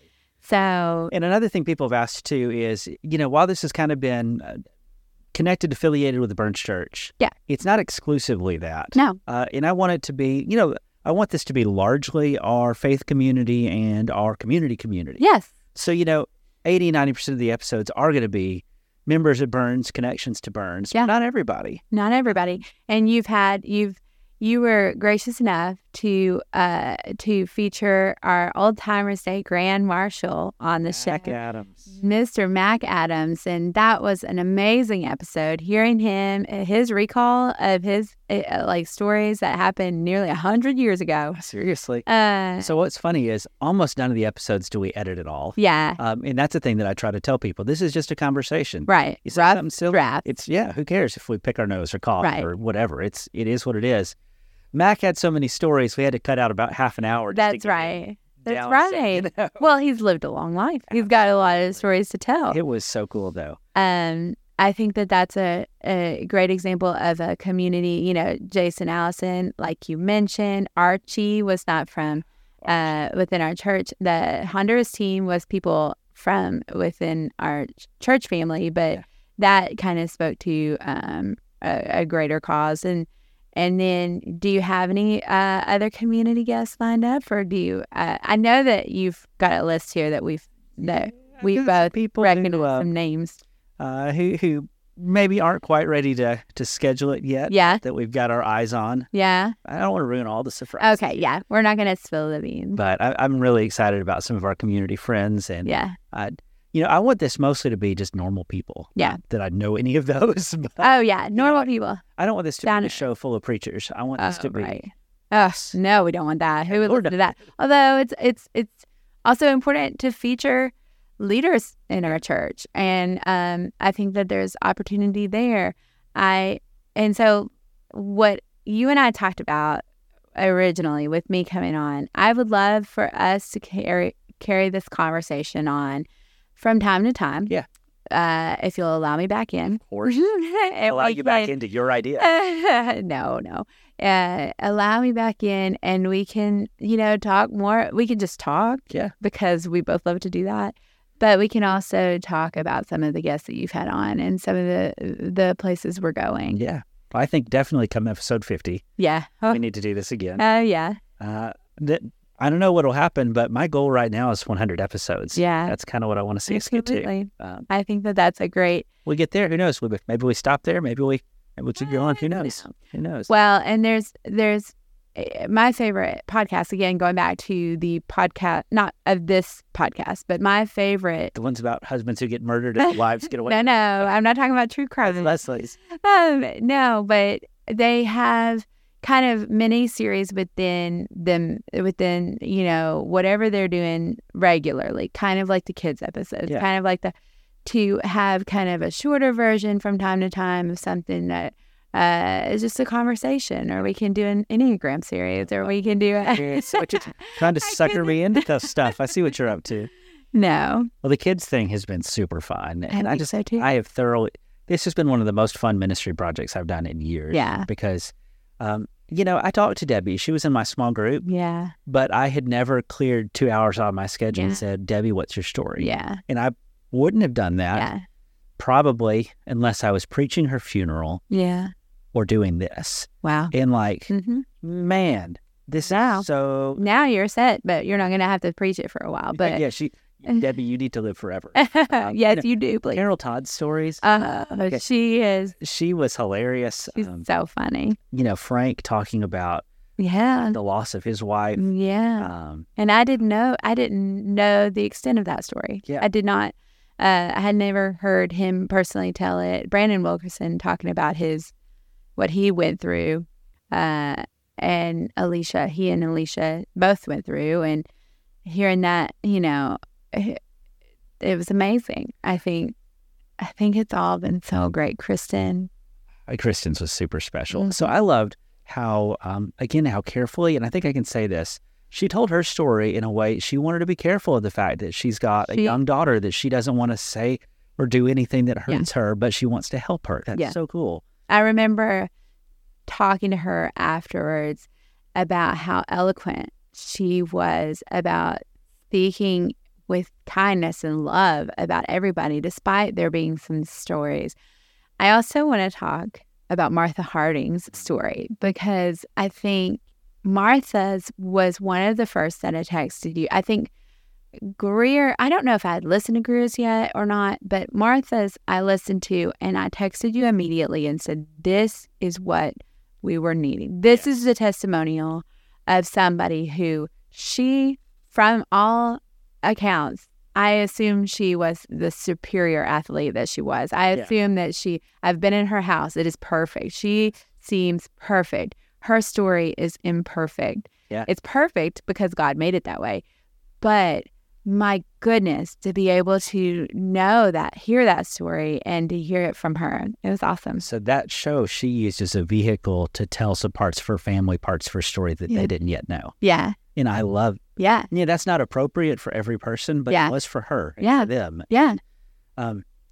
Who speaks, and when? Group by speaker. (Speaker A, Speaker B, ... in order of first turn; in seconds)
Speaker A: 0.4-1.1, 15.2-15.5, 21.9-31.3, 31.9-41.4, 42.0-42.7, 45.6-46.0, 48.9-50.2, 52.2-52.5, 57.3-62.6, 63.7-93.4, 97.5-97.8, 99.1-99.6, 100.8-102.8, 105.6-106.0, 110.8-112.0, 112.6-113.0, 114.2-129.8, 130.3-136.0, 136.6-137.5, 138.1-141.5, 142.2-156.6, 159.0-159.6, 160.4-161.0, 165.3-165.8, 166.5-168.9, 171.8-172.7, 173.3-181.3, 182.8-185.3, 185.9-197.1, 197.6-208.9, 210.3-210.9, 212.9-213.7, 217.3-217.7, 221.2-221.7, 224.3-224.6, 225.8-226.2, 227.7-228.0, 231.3-231.7, 233.2-233.5, 234.1-234.4, 235.9-236.2, 236.8-239.6, 241.5-243.0, 244.0-245.5, 246.9-248.0, 250.0-250.6, 251.6-261.5, 262.2-267.9, 268.4-270.4, 271.2-272.7, 273.4-275.7, 277.5-277.9, 285.5-285.8, 291.3-292.1, 292.9-304.4, 305.0-313.7, 314.4-343.0, 343.6-350.6, 356.2-356.6, 357.6-357.9, 359.9-360.1, 360.8-361.8
Speaker B: 1.1-4.6, 5.3-15.2, 15.7-21.8, 30.9-31.9, 41.3-42.0, 42.6-54.1, 54.7-59.6, 60.9-61.5, 62.5-63.6, 72.6-73.0, 91.4-92.9, 93.8-99.1, 99.6-101.3, 102.8-114.8, 116.7-117.4, 139.8-140.3, 140.9-142.3, 156.5-158.8, 159.5-160.4, 161.2-167.7, 169.0-173.3, 181.3-184.1, 185.0-185.8, 206.2-209.9, 211.0-221.3, 221.8-227.9, 228.6-231.2, 232.1-236.8, 239.3-244.0, 245.6-247.2, 248.1-249.6, 250.4-251.6, 252.2-252.7, 276.3-291.0, 350.6-356.1, 356.7-361.8, 362.4-362.6